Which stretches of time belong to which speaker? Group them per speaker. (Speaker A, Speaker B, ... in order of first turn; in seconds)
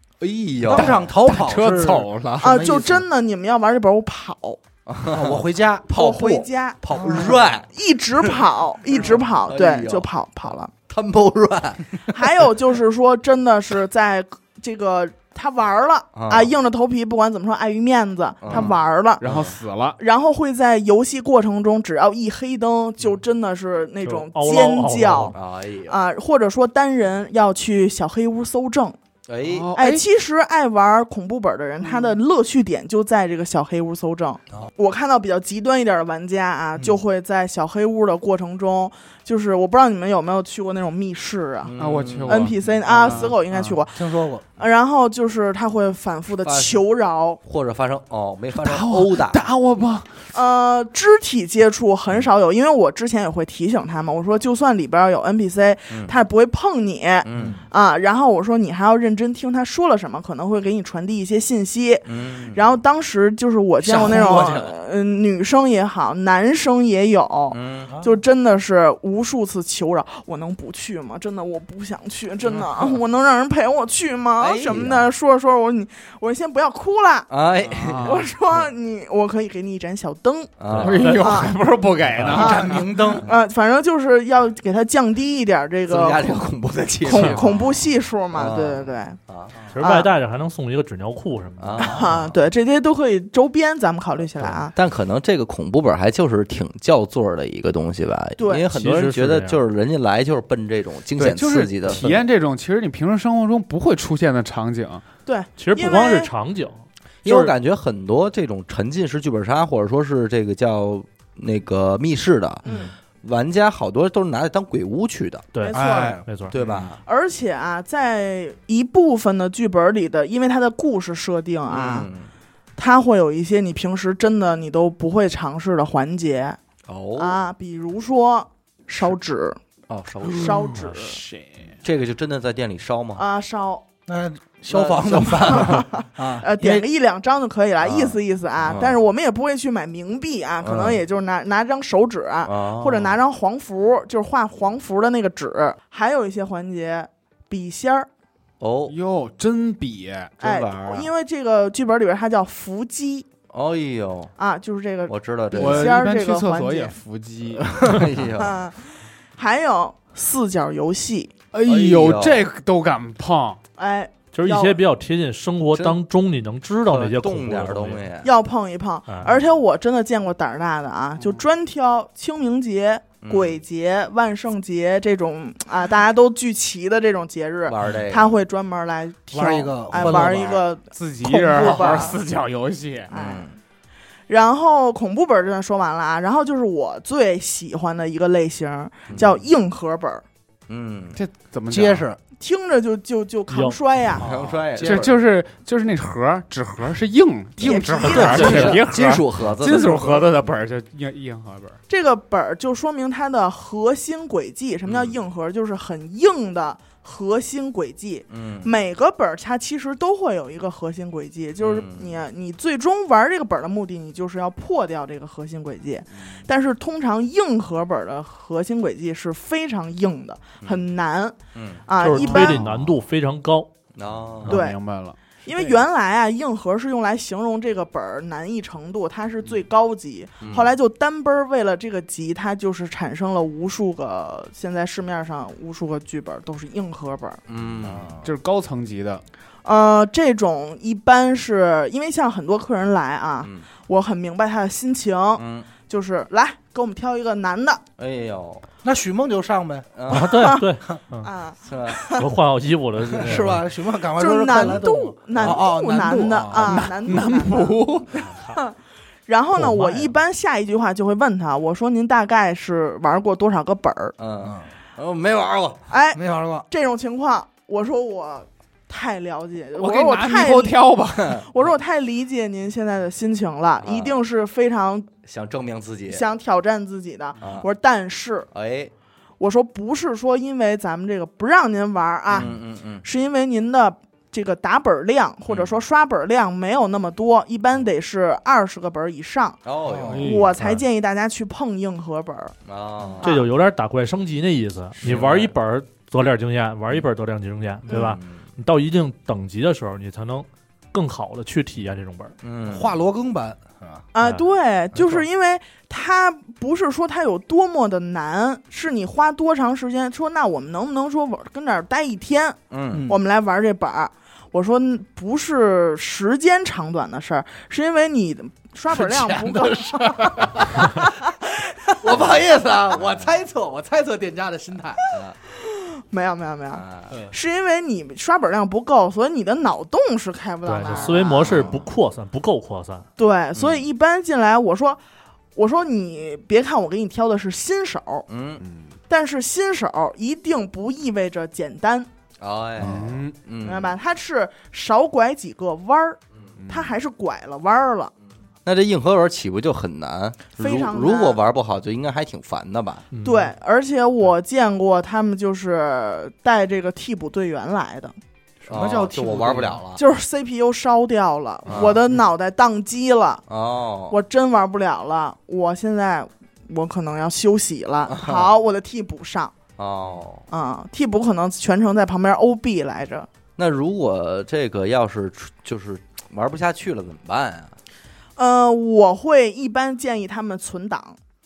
Speaker A: 0.2-1.0, 4.9-7.7, 9.0-10.1, 10.9-12.3, 16.1-16.5, 18.4-19.6, 25.3-26.0, 29.3-29.7, 41.6-42.5, 46.4-46.8, 47.4-49.4, 55.9-56.1, 57.2-57.6, 62.1-62.6, 67.5-68.0, 74.4-75.1, 77.3-78.2, 80.6-81.2, 85.9-87.6, 88.3-89.6, 91.6-92.2, 94.4-102.2, 107.2-112.7, 113.2-115.5, 116.5-117.0, 121.7-122.3, 126.9-127.4, 129.9-130.7, 131.8-133.2, 134.7-135.8, 137.8-139.0, 140.6-141.0, 142.4-143.2, 148.6-148.9, 150.4-151.1, 153.5-154.3, 155.1-156.0, 157.6-158.6, 161.7-162.5, 166.9-168.3, 173.2-173.6, 177.7-178.4, 183.1-183.6, 189.1-189.4, 190.7-191.2, 194.2-195.2, 198.1-200.3, 204.9-205.1, 208.3-208.7, 211.6-212.2, 221.5-221.8, 222.6-222.9, 223.9-224.6, 230.4-230.7, 237.5-238.2, 245.4-245.7, 248.0-248.7, 249.9-250.5, 251.6-252.0, 255.4-255.6, 264.2-265.9, 273.8-274.2, 275.2-276.2, 277.4-277.7, 278.5-278.9, 282.3-283.1, 285.5-285.8, 289.6-290.3, 292.7-293.3, 295.0-295.5, 297.9-298.4, 302.4-302.9, 312.7-313.1, 322.1-323.3, 326.7-327.2, 331.5-331.7, 333.6-333.8, 338.3-338.6, 342.4-344.0, 348.6-353.1, 358.7-360.0, 361.7-362.0, 363.5-364.2, 368.1-368.5, 369.8-370.4, 373.6-377.8
Speaker B: 0.7-3.0, 5.1-6.0, 6.9-7.5, 43.0-43.3, 43.9-44.4, 57.3-57.6, 63.8-64.7, 82.2-83.3, 115.7-116.9, 134.1-136.9, 179.3-180.6, 181.5-182.0, 191.7-192.2, 194.2-195.1, 237.8-238.2, 248.8-249.9, 253.1-256.9, 266.1-266.7, 289.9-290.3, 302.7-304.0, 312.9-313.2, 318.9-321.1, 322.0-325.0, 331.5-331.8, 358.7-359.8
Speaker C: 0.7-2.6, 19.2-20.0, 29.4-30.1, 31.9-32.1, 41.8-43.8, 48.6-50.2, 77.7-78.3, 80.7-82.8, 101.2-105.0, 130.2-131.8, 148.9-150.3, 155.5-158.1, 161.5-163.6, 180.0-183.1, 191.1-192.1, 194.8-201.8, 222.2-222.6, 224.5-225.8, 238.2-239.2, 256.5-258.3, 269.8-271.5, 290.1-290.6, 338.6-338.9, 342.8-343.4, 346.6-346.9
Speaker D: 2.4-4.6, 5.9-10.7, 12.1-19.2, 20.0-25.4, 25.9-29.0, 29.8-41.7, 42.2-47.4, 50.3-77.3, 78.0-80.5, 81.0-81.5, 82.3-86.5, 87.0-89.2, 89.8-90.1, 91.8-94.7, 98.4-98.7, 105.3-106.3, 112.7-112.9, 115.6-116.2, 117.0-122.1, 122.8-126.6, 127.2-129.6, 130.3-131.2, 133.2-133.9, 135.1-148.1, 150.4-153.3, 154.4-157.0, 158.4-161.3, 163.8-164.8, 168.2-182.2, 183.1-183.5, 184.3-190.2, 192.4-194.3, 197.6-198.8, 201.9-222.6, 224.5-224.8, 225.4-237.4, 239.7-247.8, 250.1-250.7, 251.2-252.3, 254.2-258.8, 259.3-264.1, 265.9-275.1, 276.1-278.5, 279.4-289.6, 290.2-292.6, 297.9-298.2, 304.1-321.9, 325.4-331.7, 333.2-335.0, 335.6-338.3, 339.1-342.1, 343.6-346.2, 346.7-348.1, 350.6-351.4, 353.2-358.1, 360.0-363.4, 364.1-369.5, 370.5-373.3, 378.4-381.2
Speaker E: 24.0-25.4, 89.7-91.9, 98.7-99.6, 105.6-107.5, 115.5-116.5, 164.3-168.0, 169.1-169.4, 193.5-193.8, 222.0-223.7, 250.1-251.3, 252.1-253.6, 259.6-260.1, 293.2-302.3, 330.6-333.1, 353.1-353.5